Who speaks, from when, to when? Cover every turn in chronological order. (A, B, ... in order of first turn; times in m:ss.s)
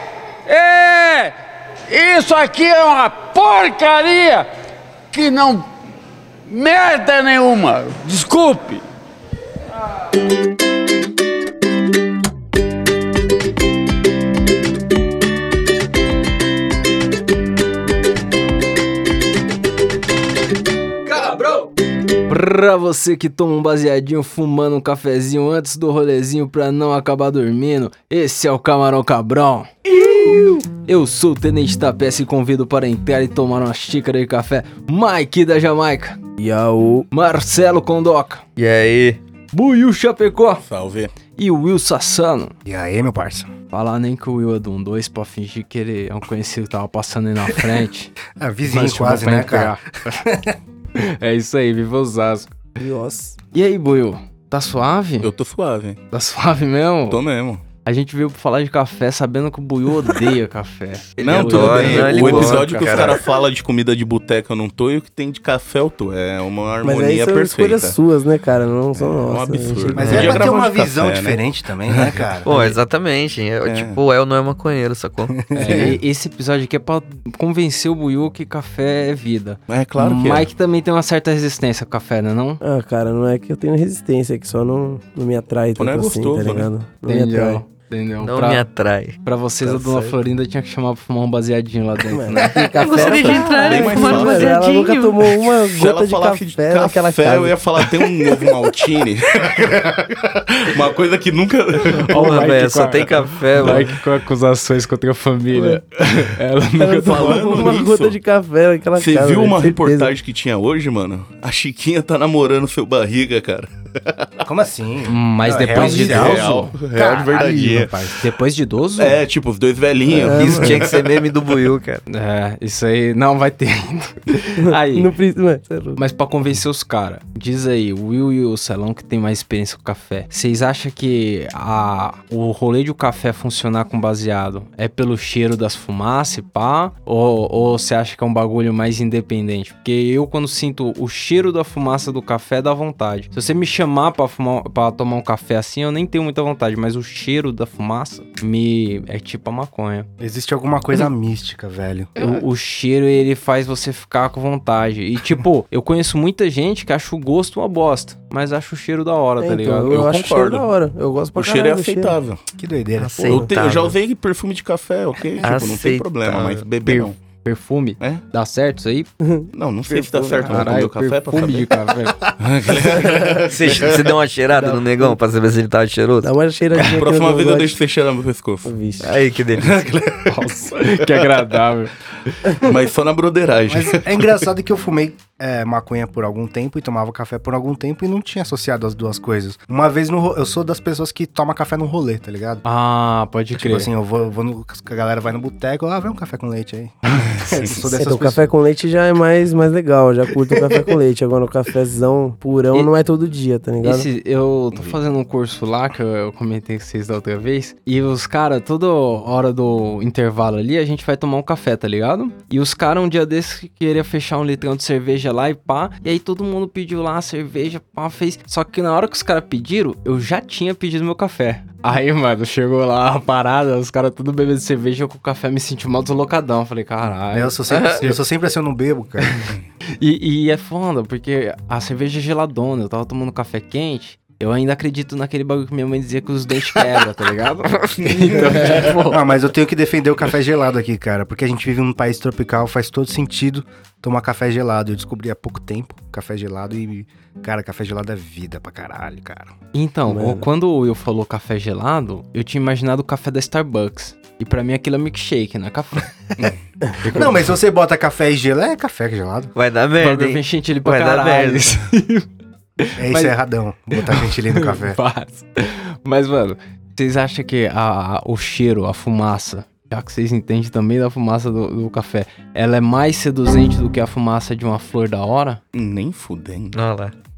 0:00.4-0:01.3 A
0:01.9-0:04.5 A
0:05.1-0:05.7 A
0:06.5-0:08.8 A
0:21.1-0:21.6 B
0:22.2-0:29.7 B
0:30.7-0:36.2 B
0:36.4-0:37.1 C
0:37.1-0:38.4 B
0:38.6-0:39.2 D
0:39.5-0:40.6 B
0:40.6-0:41.1 E
0:41.4-0:42.5 B
0:42.6-0:43.5 F
0:43.7-0:48.1 B
0:48.4-0:50.6 F
0:48.6-0:50.2 B
0:50.9-0:52.5 B
0:52.8-0:53.4 C
0:53.5-0:55.3 B
0:55.2-0:56.0 E
0:56.1-0:57.2 B
0:57.1-0:57.6 E
0:57.8-1:02.6 B
1:01.2-1:03.2 D
1:01.2-1:08.0 E
1:02.1-1:03.2 F
1:06.8-1:10.4 C
1:08.9-1:12.4 E
1:09.9-1:12.5 F
1:12.4-1:15.4 D
1:13.6-1:14.0 E
1:15.3-1:16.0 F
1:15.5-1:22.6 B
1:19.7-1:20.5 E
1:22.6-1:27.6 C
1:25.7-1:26.7 E
1:27.1-1:28.6 B
1:28.2-1:30.2 D
1:29.2-1:32.6 B
1:32.1-1:37.9 C
1:32.8-1:35.2 D
1:32.9-1:42.4 E
1:41.8-1:47.5 B
1:42.1-1:44.0 D
1:46.8-1:50.1 C
1:47.0-1:48.2 E
1:48.9-1:54.4 E
1:54.4-1:58.1 F
1:55.1-1:56.7 B
1:55.7-1:58.2 E
1:58.2-1:59.2 B
1:59.0-2:01.1 E
2:00.1-2:00.8 C
2:00.3-2:02.0 D
2:02.1-2:05.1 B
2:04.6-2:06.0 C
2:06.0-2:30.1 B
2:30.2-2:32.3 F
2:32.2-2:40.0 B
2:39.4-2:42.2 C
2:39.8-2:40.7 E
2:41.4-2:42.4 E
2:42.6-2:43.6 F
2:43.0-2:43.9 D
2:43.2-2:43.5 C
2:43.2-2:47.2 E
2:45.4-2:46.6 D
2:46.8-2:49.1 B
2:49.2-2:50.7 C
2:49.5-2:51.7 E
2:50.4-2:52.2 B
2:52.4-2:54.1 E
2:53.4-2:56.3 D
2:54.6-2:55.1 F
2:56.2-2:57.8 C
2:56.8-2:58.7 E
2:58.6-2:59.2 C
2:59.0-3:00.1 D
2:59.6-3:00.4 E
3:00.2-3:01.9 B
3:01.0-3:01.4 E
3:02.5-3:04.3 E
3:03.7-3:12.6 F
3:12.6-3:13.9 B
3:13.5-3:18.5 F
3:17.2-3:17.9 E
3:17.9-3:24.1 C
3:23.8-3:47.6 B
3:47.3-3:49.4 F
3:47.7-3:48.0 D
3:50.0-3:59.3 B
3:58.0-3:58.8 E
3:58.6-4:09.5 F
4:09.7-4:16.1 B
4:10.1-4:10.5 C
4:17.0-4:17.3 B
4:17.0-4:19.5 F
4:19.5-4:21.8 D
4:20.0-4:22.3 B
4:22.8-4:23.4 B
4:23.0-4:25.0 F
4:23.9-4:35.6 B
4:35.7-4:36.8 E
4:36.7-4:37.1 D